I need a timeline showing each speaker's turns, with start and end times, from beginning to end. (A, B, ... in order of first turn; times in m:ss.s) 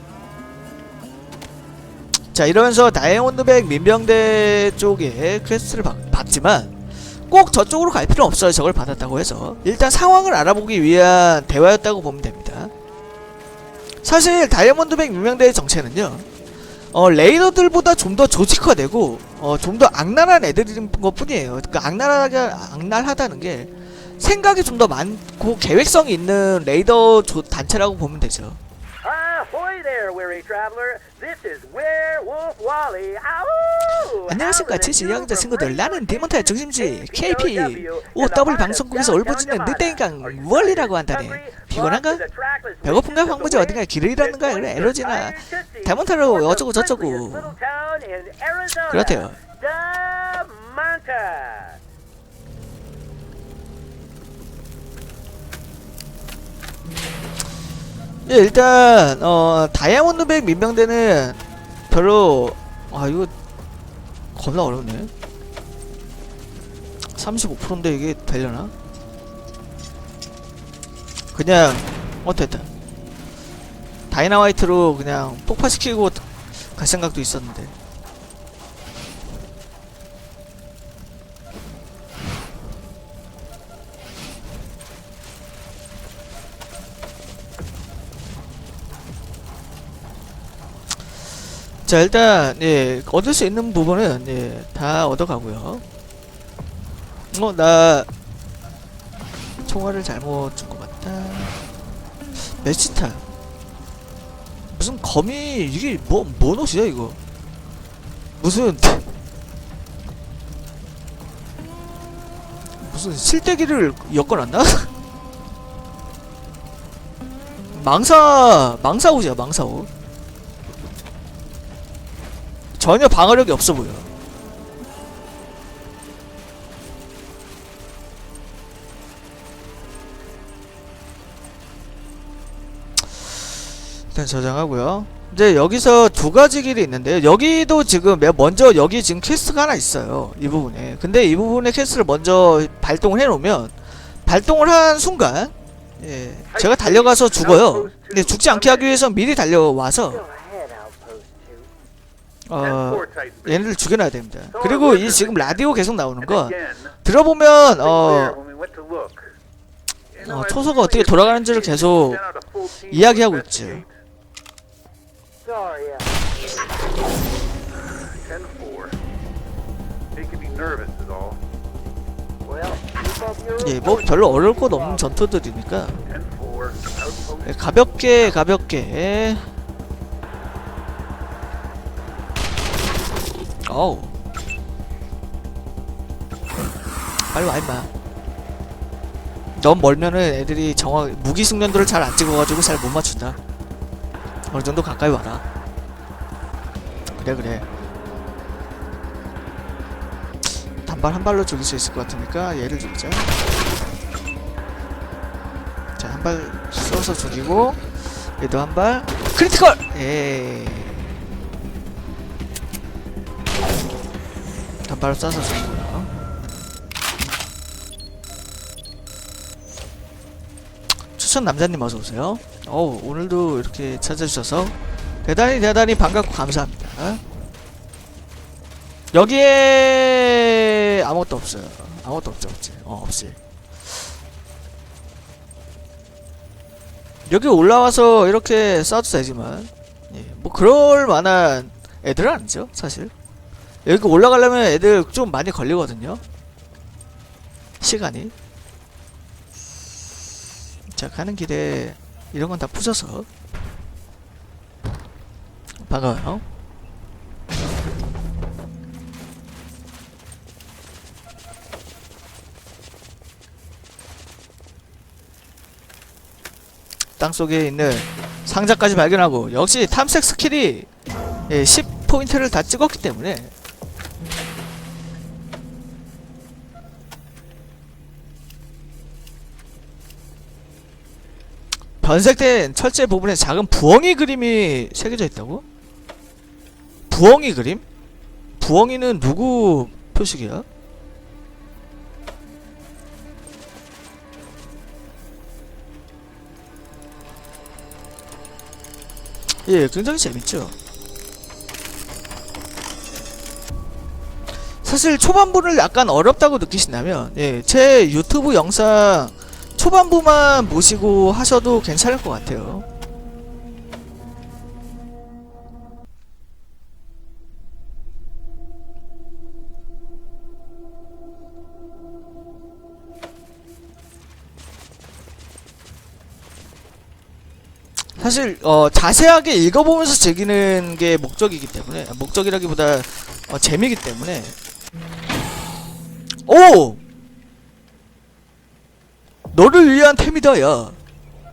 0:02.3-0:06.7 A
0:07.3-0:12.7 A
0:14.0-0:16.2 A
0:16.9-0:28.6 A
0:29.0-0:51.8 B
0:34.2-0:42.2 A
0:42.8-0:47.6 A
0:48.9-0:49.4 A
0:58.2-1:03.3 A
1:04.4-1:05.1 A
1:07.2-1:08.7 A
1:11.3-1:12.7 A
1:14.1-1:17.7 A
1:31.8-1:35.8 A
1:37.3-1:38.1 A
1:39.6-1:41.6 A
1:42.6-1:43.2 A
1:44.7-1:47.2 A
1:48.4-1:49.1 A
1:52.8-1:54.9 A
1:57.7-1:59.9 A
2:02.8-2:04.1 A
2:14.1-2:30.2 A
2:26.5-2:29.0 C
2:30.0-2:31.7 B
2:32.4-2:38.4 A
2:32.6-2:33.8 C
2:34.5-2:35.6 C
2:36.2-2:37.0 C
2:37.6-2:39.3 C
2:40.1-2:43.9 C
2:40.2-2:42.2 A
2:42.9-2:43.8 A
2:45.4-2:46.2 B
2:47.9-2:49.0 C
2:50.1-2:51.4 C
2:52.4-2:55.1 B
2:53.6-2:56.0 A
2:56.0-2:58.4 C
2:57.4-2:59.5 A
3:03.6-3:04.2 A
3:07.3-3:07.9 A
3:09.5-3:13.4 A
3:14.5-3:15.4 A
3:17.2-3:17.7 A
3:20.8-3:23.3 A
3:26.0-3:27.8 A
3:28.4-3:31.1 A
3:34.8-3:36.1 A
3:41.2-3:47.2 A
3:49.1-3:53.4 A
3:57.3-4:03.1 A
4:03.8-4:06.2 A
4:07.8-4:08.3 A
4:10.9-4:13.3 A
4:15.8-4:16.4 A
4:27.2-4:30.9 A
4:31.5-4:33.5 A
4:42.0-4:45.6 A
4:47.1-4:47.8 A
4:48.6-4:50.6 A
4:59.6-5:00.7 A
5:04.8-5:12.8 A
5:28.2-5:34.5 A
5:36.5-5:37.0 A
5:39.5-5:41.0 A